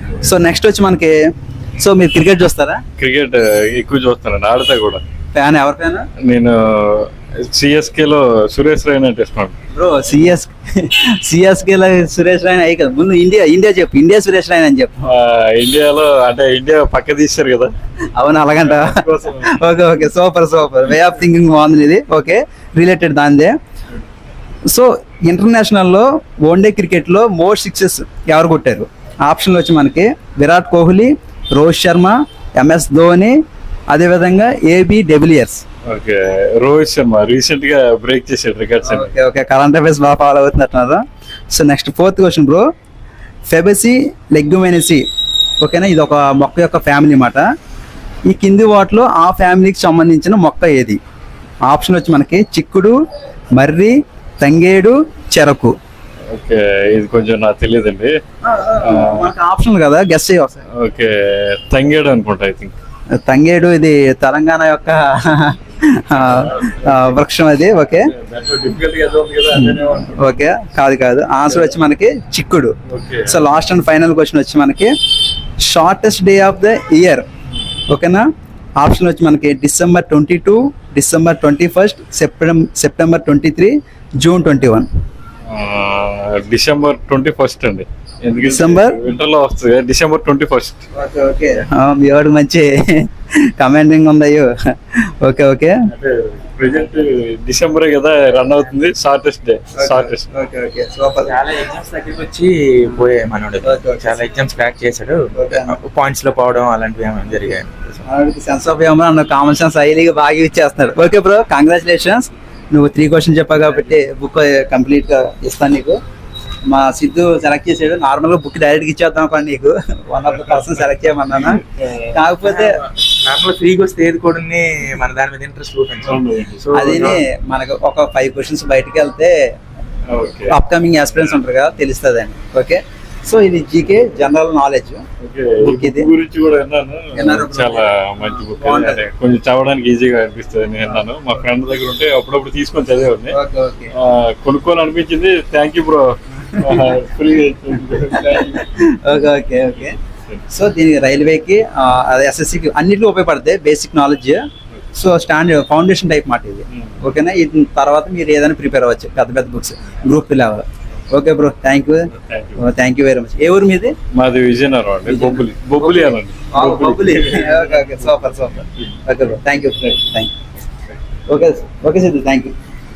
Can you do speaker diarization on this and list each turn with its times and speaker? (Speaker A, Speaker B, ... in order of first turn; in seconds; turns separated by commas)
Speaker A: 0.2-1.3, Speaker A: 1.8-2.8, Speaker B: 3.0-5.0, Speaker A: 5.3-6.1, Speaker B: 6.2-9.6, Speaker A: 9.7-15.1, Speaker B: 15.1-17.7, Speaker A: 18.1-23.5, Speaker B: 18.6-19.6, Speaker A: 24.7-33.4, Speaker A: 33.9-35.6, Speaker B: 35.9-39.1, Speaker A: 38.9-42.6, Speaker A: 43.5-45.0, Speaker A: 45.6-47.5, Speaker A: 48.3-51.0, Speaker A: 51.7-53.0, Speaker A: 53.5-55.8, Speaker B: 56.3-58.1, Speaker A: 58.4-60.6, Speaker B: 58.8-59.3, Speaker B: 60.7-62.8, Speaker A: 63.2-68.1, Speaker B: 66.1-67.1, Speaker B: 68.0-70.3, Speaker A: 69.5-75.0, Speaker B: 72.9-73.4, Speaker A: 75.6-77.2, Speaker A: 77.9-78.2, Speaker A: 78.8-84.9, Speaker B: 85.5-90.8, Speaker A: 88.4-89.0, Speaker A: 90.9-95.9, Speaker B: 95.9-100.3, Speaker A: 99.8-101.3, Speaker C: 101.2-108.0, Speaker A: 103.6-104.2, Speaker A: 105.4-105.8, Speaker A: 108.0-116.0, Speaker A: 116.7-122.8, Speaker B: 121.5-122.1, Speaker C: 122.4-127.2, Speaker B: 126.1-127.1, Speaker A: 126.7-129.3, Speaker B: 130.1-130.6, Speaker A: 130.5-135.0, Speaker B: 135.2-143.4, Speaker A: 135.6-136.1, Speaker A: 137.1-139.0, Speaker A: 143.3-143.9, Speaker B: 143.9-148.7, Speaker A: 146.6-146.9, Speaker A: 148.1-150.0, Speaker A: 150.5-154.4, Speaker A: 154.9-163.9, Speaker B: 156.7-157.0, Speaker B: 162.1-162.6, Speaker B: 164.1-167.9, Speaker A: 165.1-170.3, Speaker A: 171.3-172.5